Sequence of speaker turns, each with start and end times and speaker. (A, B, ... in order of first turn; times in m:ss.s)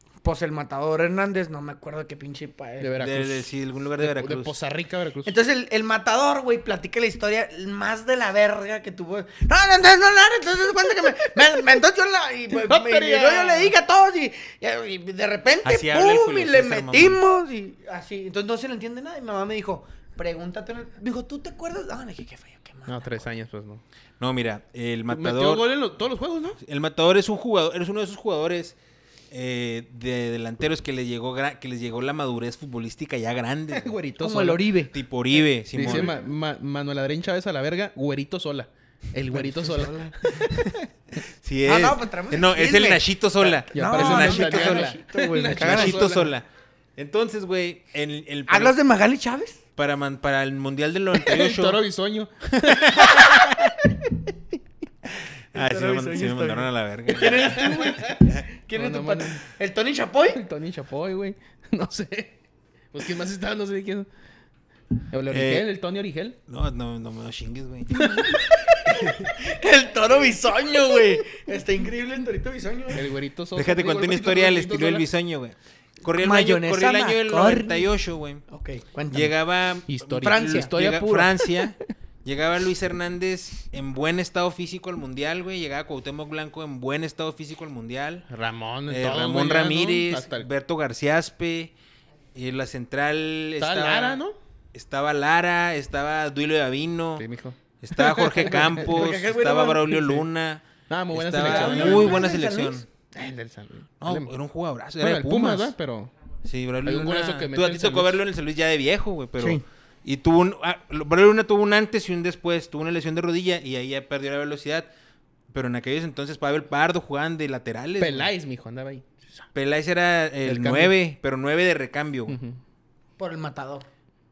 0:00.2-0:02.9 A
0:02.8-0:05.3 B
0:03.0-0:04.6 C
0:05.2-0:23.2 A
0:12.6-0:13.7 B
0:15.6-0:17.2 C
0:22.9-0:23.8 B
0:24.2-0:25.7 C
0:25.1-0:26.6 B
0:26.6-0:28.8 C
0:29.3-0:33.9 C
0:33.7-0:34.7 B
0:34.2-0:34.9 A
0:34.9-0:36.2 C
0:35.7-0:40.8 B
0:35.8-0:36.1 A
0:39.3-0:40.1 A
0:41.2-0:45.0 C
0:41.6-0:46.2 A
0:43.7-0:46.3 B
0:45.5-0:46.4 C
0:47.0-0:48.8 C
0:48.5-0:49.6 A
0:49.8-0:51.8 C
0:51.2-0:53.6 B
0:52.5-0:53.7 C
0:55.5-0:58.4 C
0:55.5-1:00.4 A
0:57.2-0:59.4 B
1:00.3-1:02.3 B
1:02.9-1:04.1 B
1:05.1-1:06.4 B
1:05.3-1:05.6 C
1:06.5-1:08.1 C
1:08.0-1:13.1 A
1:12.9-1:15.0 B
1:13.5-1:18.4 C
1:16.2-1:17.9 A
1:18.5-1:19.3 A
1:19.1-1:28.3 C
1:19.9-1:21.7 B
1:20.2-1:20.7 A
1:28.3-1:30.5 B
1:28.9-1:31.7 C
1:32.3-1:34.2 C
1:33.6-1:34.4 B
1:34.7-1:37.2 C
1:37.2-1:39.0 B
1:37.8-1:42.9 C
1:38.5-1:40.2 A
1:40.9-1:42.2 B
1:41.4-1:42.8 A
1:43.1-1:44.3 B
1:44.0-1:45.7 C
1:45.0-1:46.1 B
1:46.4-1:54.9 C
1:46.8-1:48.2 B
1:55.5-1:58.3 C
1:58.0-1:59.5 B
1:59.5-2:02.4 C
2:00.4-2:00.9 B
2:02.3-2:02.6 B
2:03.2-2:03.9 A